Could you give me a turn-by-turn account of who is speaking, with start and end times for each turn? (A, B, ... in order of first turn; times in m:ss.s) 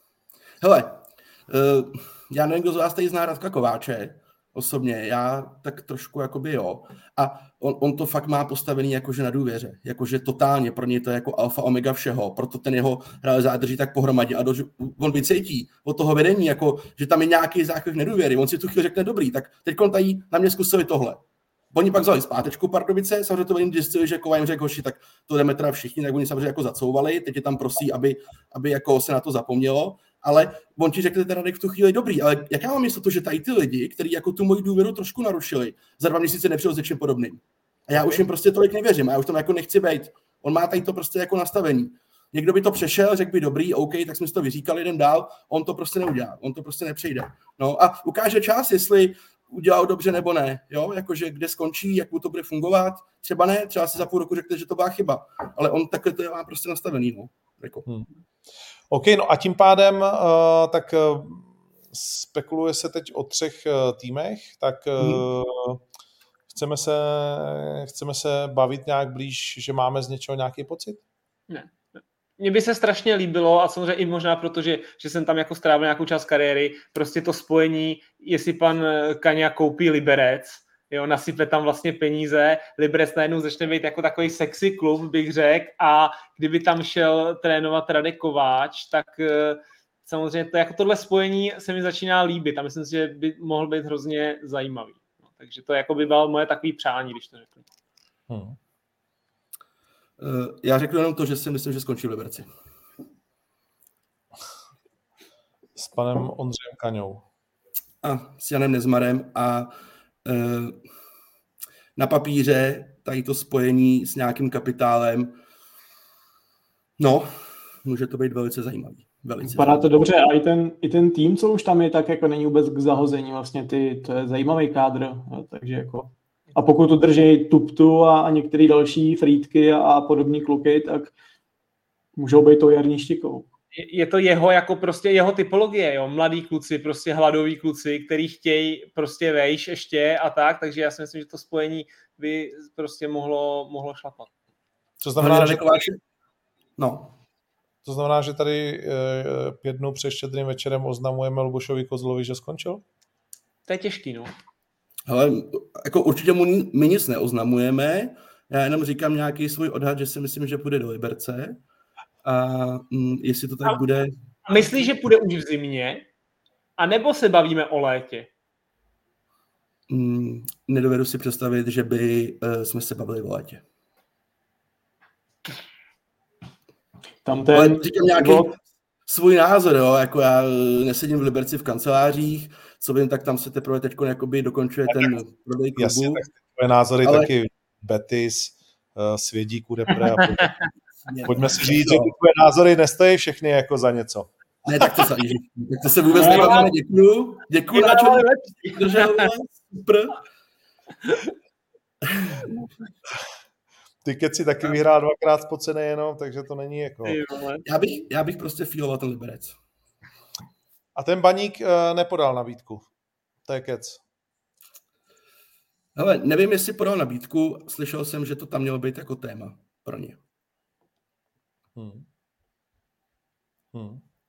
0:00.6-0:57.9 A
0:58.9-1:05.8 B
1:06.5-1:11.0 B
1:12.4-1:37.6 C
1:38.3-1:38.6 B
1:40.2-1:42.5 A
1:45.8-1:47.2 B
1:48.0-1:49.7 A
1:50.2-1:50.8 A
1:52.0-1:55.3 A
1:57.0-1:59.9 A
1:59.4-2:11.1 D
2:12.2-2:13.4 D
2:13.7-2:24.3 C
2:25.0-2:25.8 B
2:25.2-2:26.0 A
2:26.8-2:27.2 A
2:27.8-2:32.8 B
2:33.7-2:34.3 C
2:35.1-2:41.6 A
2:42.2-2:44.1 A
2:44.4-2:46.0 C
2:46.8-2:48.3 C
2:49.9-2:53.6 A
2:57.2-2:58.5 D
2:57.5-3:06.2 A
3:05.8-3:10.5 B
3:07.0-3:07.3 A
3:11.1-3:12.1 A
3:11.2-3:14.3 B
3:14.6-3:20.2 A
3:16.2-3:16.7 C
3:17.7-3:19.3 C
3:24.0-3:27.2 B
3:27.0-3:27.6 C
3:27.6-3:29.6 A
3:31.0-3:32.8 B
3:33.4-3:34.0 B
3:35.9-3:40.2 A
3:41.8-3:42.0 B
3:43.7-3:44.0 B